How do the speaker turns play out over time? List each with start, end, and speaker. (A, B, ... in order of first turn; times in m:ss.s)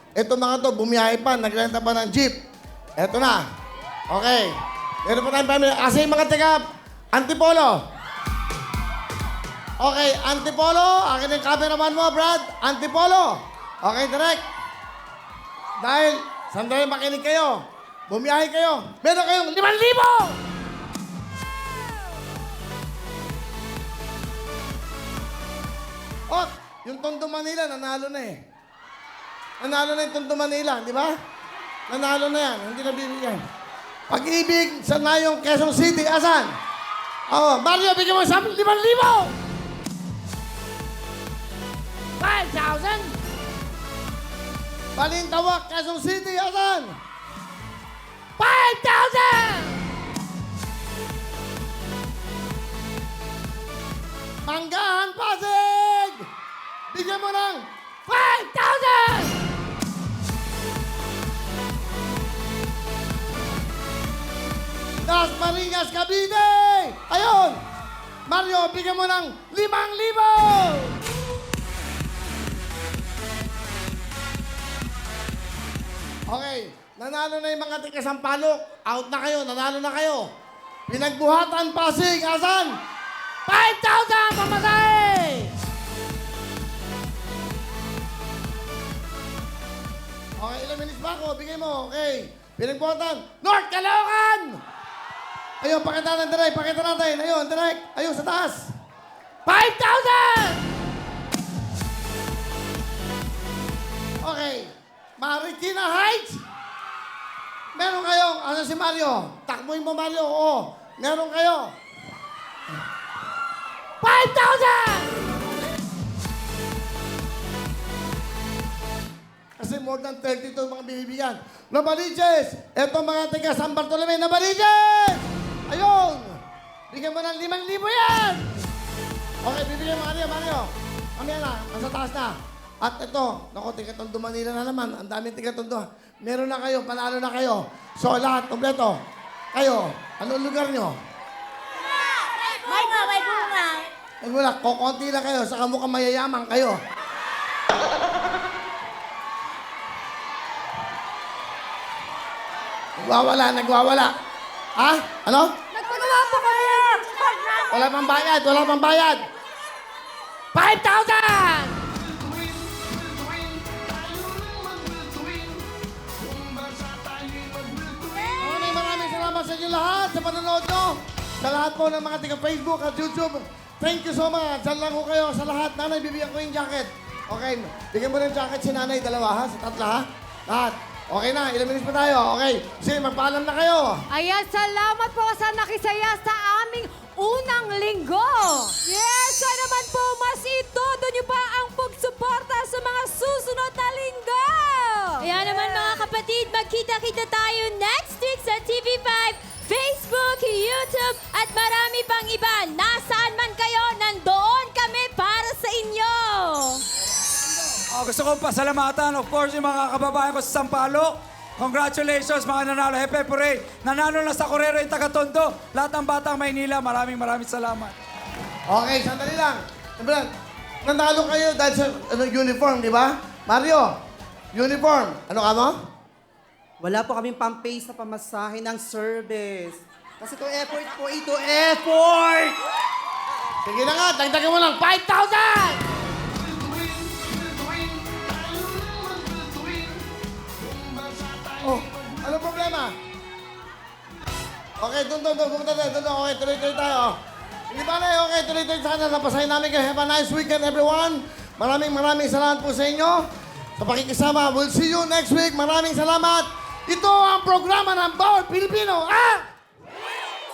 0:00.2-0:02.4 A
0:03.0-0:03.4 A
0:04.1-0:04.5 A
0:05.0-0:06.6 A
0:07.1-0:07.7 A
0:09.8-0:13.3 A
0:13.8-0:14.4 A
0:15.8-0:20.4 A
0:26.3-0:28.4 A
0:29.6-0:31.1 A
0:31.9-0:33.4 A
0:34.1-0:36.5 A
0:37.3-0:39.3 A
0:42.2-0:42.9 B
0:42.2-0:43.0 A
0:45.0-0:46.9 A
0:48.4-0:49.7 A
0:54.4-0:56.2 A
0:56.9-0:59.3 A
1:05.0-1:07.6 A
1:08.3-1:11.0 A
1:16.3-1:20.2 A
1:20.9-1:22.7 A
1:23.5-1:25.5 A
1:30.4-1:34.6 A
1:35.6-1:38.7 A
1:39.5-1:40.6 A
1:44.2-1:46.4 A
1:47.7-1:51.7 A
1:54.0-1:55.0 A
1:54.1-1:54.9 B
1:59.6-2:06.4 A
2:06.9-2:08.5 A
2:09.4-2:19.0 A
2:19.5-2:20.9 A
2:24.2-2:26.8 A
2:33.0-2:34.1 A
2:34.8-2:35.5 A
2:35.8-2:37.6 B
2:37.7-2:39.2 A
2:40.5-2:41.7 B
2:40.8-2:41.2 A
2:41.9-2:45.7 C
2:46.2-2:48.5 C
2:48.4-3:04.0 A
3:04.1-3:15.7 B
3:08.9-3:09.4 D
3:15.2-3:26.8 D
3:27.9-3:37.9 E
3:38.7-3:40.3 A
3:40.8-3:43.9 A
3:44.5-3:45.7 A
3:46.8-3:52.6 C
3:53.6-3:55.8 A
3:56.4-4:00.1 C
4:00.6-4:01.7 C
4:01.6-4:02.9 A
4:04.8-4:07.2 A
4:07.7-4:13.3 A
4:13.8-4:19.4 A